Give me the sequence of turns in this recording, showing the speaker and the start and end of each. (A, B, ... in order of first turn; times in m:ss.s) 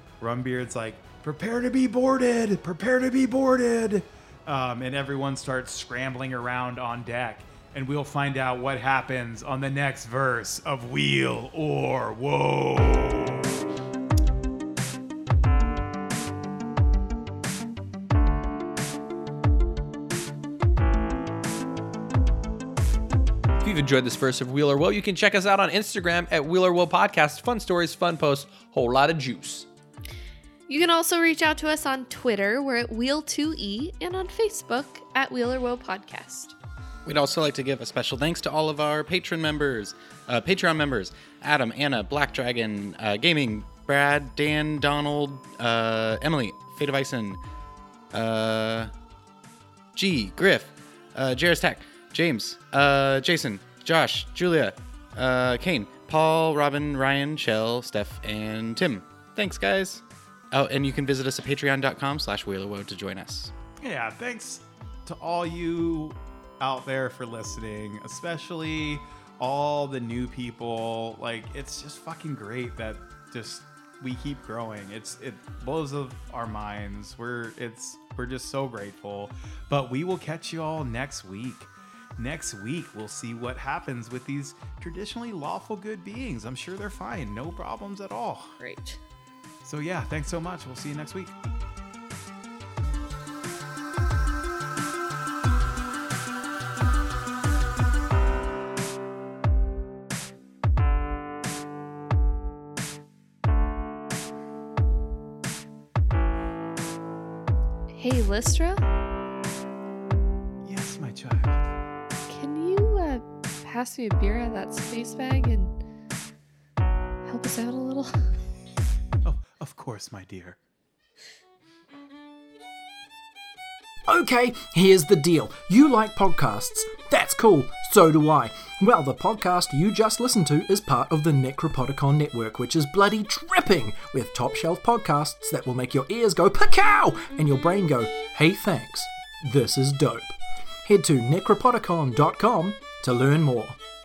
0:00.2-0:13.6 A
0:23.6-0:29.7 B
0:30.7-0:36.5 C
0:37.0-0:47.4 D
0:48.1-0:48.9 D
0:49.9-1:03.5 D
1:03.8-1:28.6 A
1:28.6-1:29.0 C
1:29.6-1:31.4 A
1:47.9-1:48.8 C
1:50.6-1:51.7 A
1:52.3-1:55.7 C
1:57.2-1:58.2 C
1:59.2-2:00.6 A
2:04.1-2:23.8 E